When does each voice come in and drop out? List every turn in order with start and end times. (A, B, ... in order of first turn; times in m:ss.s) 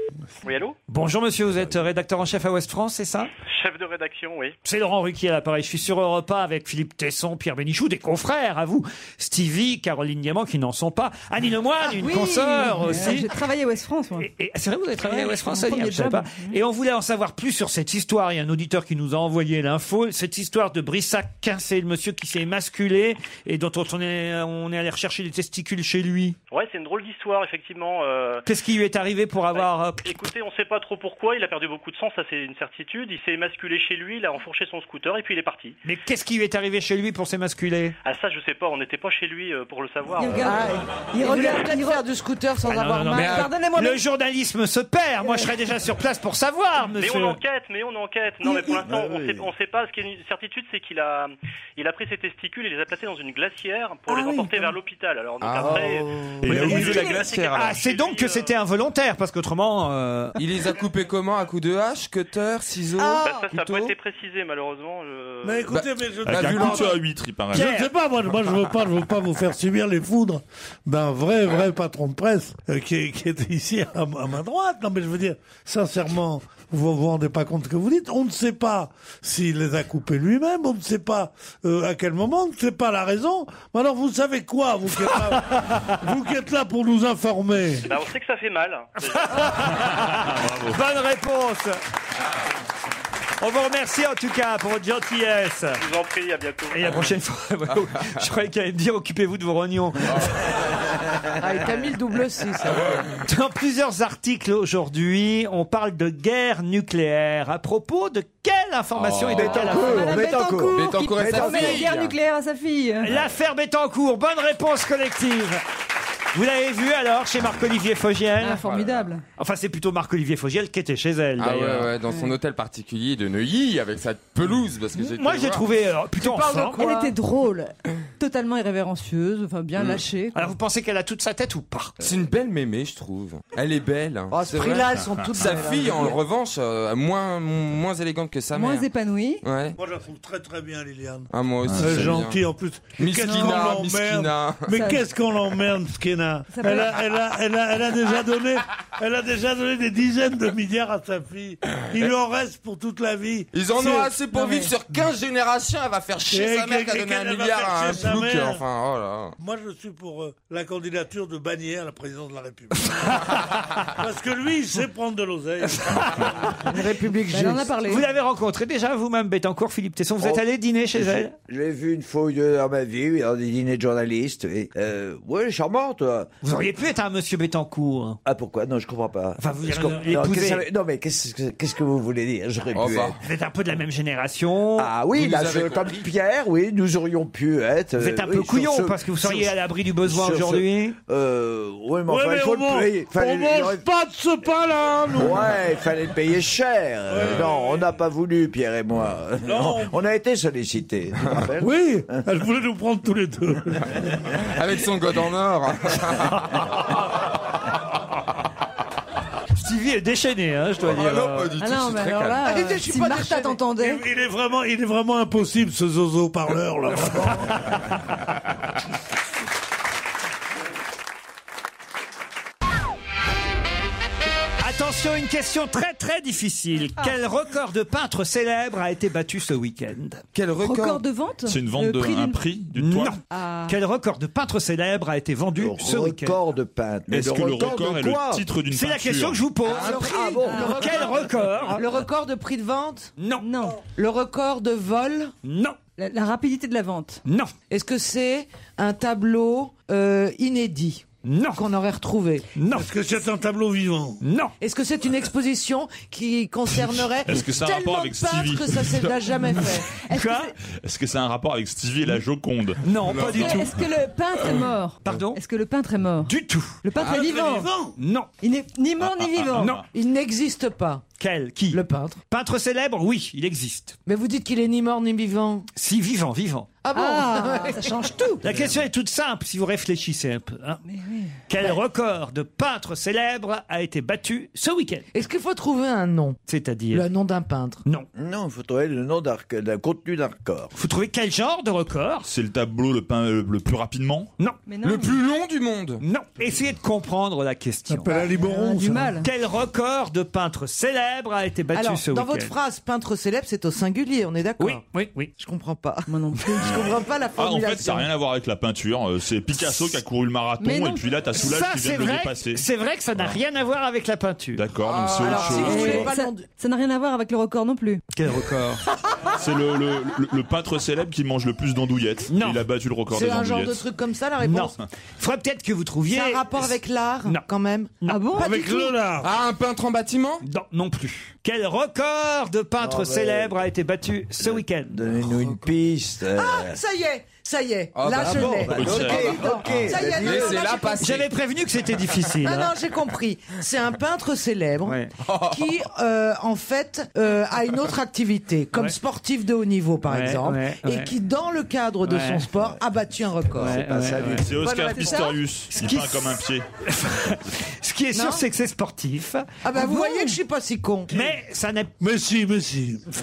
0:00.4-0:00.8 A
0:00.9-0:03.3 B
0:03.4-0:04.6 A
0:04.6-0:13.3 B
0:11.9-0:14.3 C
0:14.2-0:26.4 B
0:15.0-0:16.6 C
0:26.5-0:28.4 A
0:28.5-0:30.1 B
0:29.5-0:35.8 A
0:35.8-0:38.0 B
0:38.0-0:40.6 A
0:40.2-0:42.1 C
0:40.4-0:43.5 D
0:42.7-0:47.4 B
0:43.2-0:44.0 C
0:45.2-0:45.5 C
0:47.0-0:58.6 A
0:48.4-0:48.9 D
0:48.9-0:49.3 E
0:54.1-0:54.7 C
0:55.4-0:57.7 F
0:56.4-1:00.4 B
0:56.5-0:56.9 G
1:00.4-1:03.9 F
1:03.0-1:03.3 C
1:03.2-1:05.7 A
1:05.4-1:27.9 G
1:05.7-1:06.9 F
1:06.2-1:07.8 H
1:07.5-1:07.9 B
1:25.1-1:25.9 B
1:27.9-1:29.3 A
1:29.0-1:31.8 B
1:29.8-1:30.8 H
1:33.4-1:35.8 B
1:35.8-1:36.9 A
1:36.7-1:40.4 B
1:41.4-1:43.0 D
1:43.2-1:50.2 B
1:49.0-1:49.6 F
1:49.4-1:51.9 E
1:49.4-1:53.1 C
1:50.7-1:52.2 F
1:53.0-1:55.6 B
1:56.3-1:58.6 B
1:58.4-1:59.2 C
1:58.6-1:59.1 F
1:59.4-2:01.9 B
2:01.4-2:05.6 F
2:05.0-2:06.9 B
2:06.2-2:07.2 D
2:06.5-2:10.5 C
2:09.8-2:10.0 F
2:10.3-2:12.0 B
2:12.0-2:18.9 F
2:14.3-2:16.2 D
2:15.0-2:15.6 H
2:18.5-2:19.4 C
2:19.4-2:19.8 F
2:19.8-2:34.1 G
2:21.3-2:22.4 F
2:21.7-2:22.2 H
2:23.0-2:24.7 F
2:23.2-2:23.6 C
2:24.7-2:25.0 C
2:26.5-2:27.0 C
2:31.9-2:32.1 F
2:33.5-2:39.4 F
2:34.2-2:34.7 C
2:36.3-2:38.6 G
2:39.4-2:46.2 G
2:43.0-2:43.6 B
2:45.7-2:46.6 B
2:46.6-2:47.8 D
2:47.3-2:48.1 C
2:47.9-2:51.3 B
2:50.2-2:56.3 E
2:56.4-2:58.2 B
2:58.2-3:03.2 E
2:59.4-3:00.7 B
3:02.7-3:03.2 F
3:03.2-3:04.9 B
3:04.8-3:13.8 E
3:05.1-3:06.0 F
3:08.0-3:11.0 B
3:12.1-3:15.5 G
3:15.2-3:22.3 E
3:17.1-3:17.8 G
3:19.4-3:20.0 G
3:21.6-3:24.0 G
3:24.5-3:26.6 F
3:29.6-3:31.5 B
3:30.8-3:32.6 F
3:31.6-3:34.0 C
3:32.4-3:33.7 D
3:33.8-3:37.8 G
3:44.6-3:50.2 B
3:50.3-3:51.1 F
3:50.6-3:52.4 C
3:51.4-3:53.2 H
3:52.8-3:56.4 B
3:53.3-3:53.8 C
3:55.6-3:58.5 E
3:57.1-3:59.5 H
3:58.7-4:01.8 B
3:59.7-4:03.1 D
3:59.7-4:00.7 E
4:00.4-4:01.0 C
4:03.2-4:03.4 B
4:03.4-4:03.8 C
4:03.9-4:05.3 D
4:05.4-4:05.8 B
4:06.0-4:07.2 C
4:07.2-4:07.5 B
4:07.7-4:12.5 D
4:11.2-4:11.6 B
4:12.6-4:12.9 B
4:12.7-4:14.2 G
4:14.2-4:14.5 B
4:14.6-4:20.0 D
4:17.2-4:19.1 H
4:19.9-4:20.6 C
4:20.1-4:20.5 B
4:20.7-4:23.7 H
4:22.8-4:23.7 B
4:23.0-4:23.6 F
4:23.3-4:27.7 C
4:25.0-4:25.4 B
4:26.2-4:26.8 B
4:27.0-4:27.2 F
4:27.0-4:28.0 G
4:28.0-4:28.3 B
4:28.4-4:29.8 C
4:29.0-4:29.8 H
4:29.6-4:29.8 B
4:29.9-4:31.0 D
4:31.2-4:34.0 B
4:31.7-4:32.2 D
4:34.1-4:35.7 D
4:35.8-4:36.7 B
4:36.8-4:38.4 D
4:36.9-4:38.4 C
4:38.4-4:40.8 B
4:40.9-4:41.4 C
4:41.5-4:45.1 B
4:45.1-4:46.4 D
4:46.5-4:47.1 B
4:46.9-4:47.8 D
4:48.2-4:50.7 E
4:50.8-4:52.3 B
4:52.2-4:54.3 H
4:54.7-4:55.1 C
4:54.8-4:56.0 F
4:56.0-4:58.2 B
4:57.9-4:59.2 G
4:58.2-4:59.3 C
4:59.2-5:02.6 B
5:01.7-5:04.8 D
5:04.6-5:05.3 B
5:05.4-5:08.1 D
5:06.1-5:06.9 C
5:07.4-5:12.6 H
5:10.6-5:11.1 C
5:11.4-5:14.6 B
5:14.6-5:16.1 H
5:14.9-5:15.8 F
5:15.2-5:16.5 D
5:15.4-5:18.0 C
5:18.1-5:18.8 B
5:19.4-5:23.8 H
5:22.3-5:22.6 B
5:23.1-5:24.8 D
5:24.4-5:26.7 B
5:26.1-5:29.0 D
5:28.0-5:28.4 B
5:28.1-5:28.5 C
5:28.4-5:29.3 G
5:29.2-5:30.4 F
5:30.4-5:35.0 B
5:32.8-5:33.6 E
5:34.4-5:36.8 E
5:36.3-5:41.2 D
5:38.0-5:41.3 F
5:38.2-5:40.6 E
5:38.4-5:40.0 H
5:41.0-5:42.7 B
5:42.4-5:53.8 D
5:44.8-5:45.1 B
5:45.2-5:45.8 F
5:50.1-5:51.1 B
5:52.0-5:52.5 B
5:53.5-5:54.5 E
5:53.6-5:54.5 B
5:54.2-5:56.7 H
5:54.6-5:55.4 D
5:55.7-6:00.3 B
5:58.1-5:58.4 D
5:59.6-6:01.1 D
6:01.1-6:01.9 B
6:02.0-6:03.0 G